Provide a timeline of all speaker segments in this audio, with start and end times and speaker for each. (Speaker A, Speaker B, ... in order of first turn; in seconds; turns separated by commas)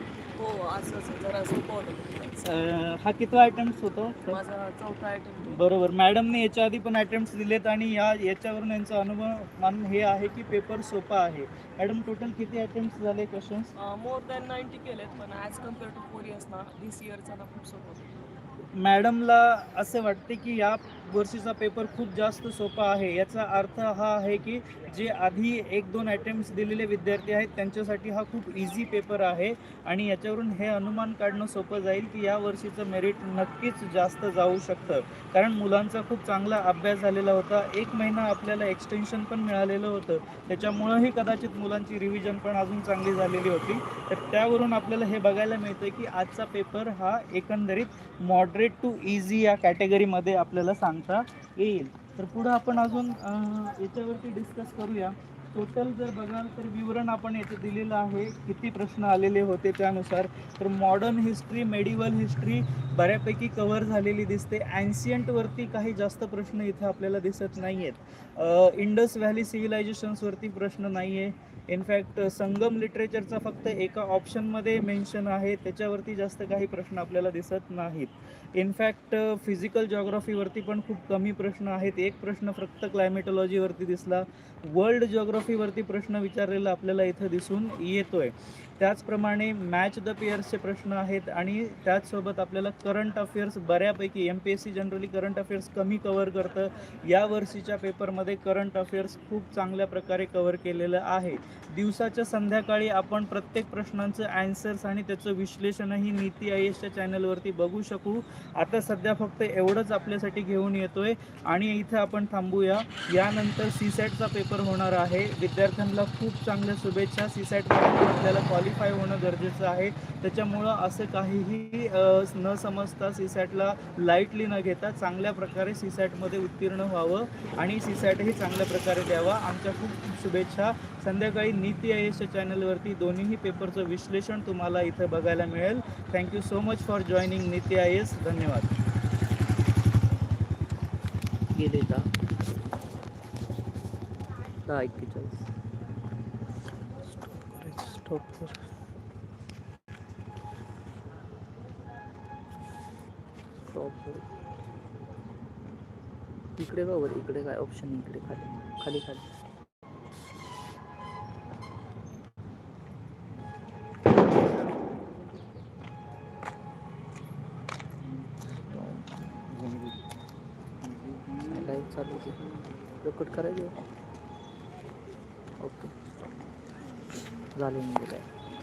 Speaker A: 0.4-2.5, Speaker B: 2.4-4.4, Speaker A: 4.3-5.6, Speaker B: 5.4-13.7, Speaker A: 13.8-18.1, Speaker B: 18.7-138.7, Speaker C: 141.5-142.1, Speaker C: 144.7-145.4, Speaker C: 147.4-148.5, Speaker C: 153.7-154.2, Speaker C: 156.6-159.3, Speaker C: 168.0-169.8, Speaker C: 171.4-172.5, Speaker C: 173.0-173.8, Speaker C: 175.6-175.9, Speaker C: 177.6-178.3